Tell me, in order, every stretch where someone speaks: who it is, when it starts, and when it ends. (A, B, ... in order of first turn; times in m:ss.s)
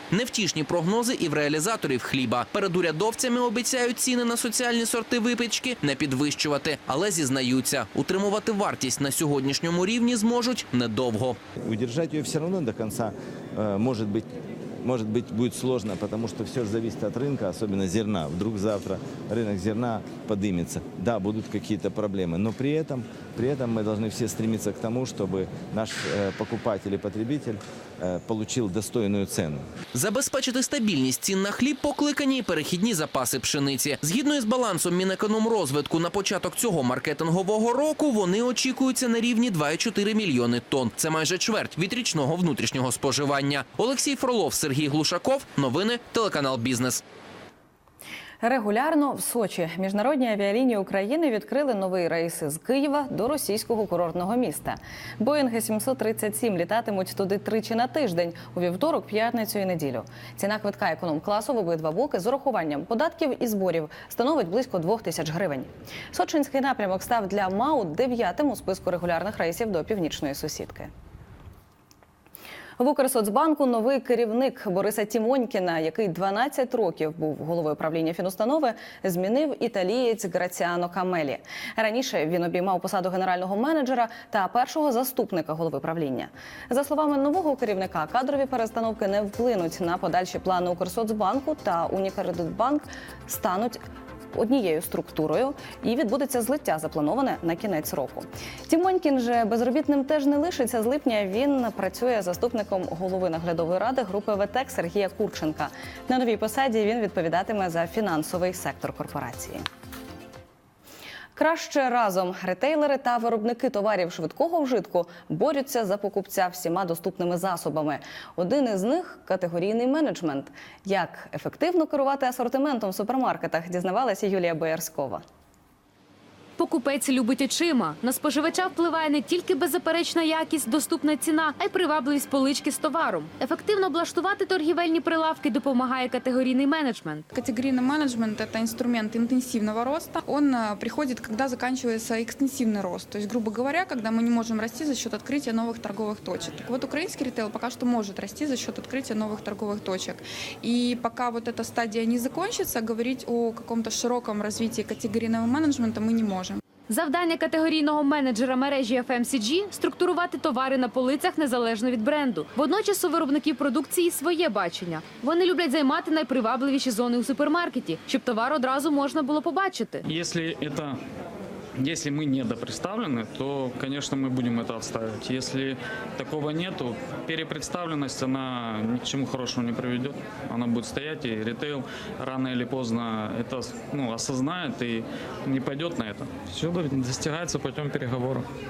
0:00.1-0:11.4 A
0:11.6-0:29.7 B
0:29.9-0:47.0 A
0:48.4-1:10.9 C
1:12.8-1:33.8 C
1:34.3-1:49.6 C
1:51.4-2:05.2 C
2:06.6-2:17.3 D
2:17.3-2:36.6 E
2:36.9-2:50.0 D
2:50.1-2:51.0 F
2:51.8-3:08.5 F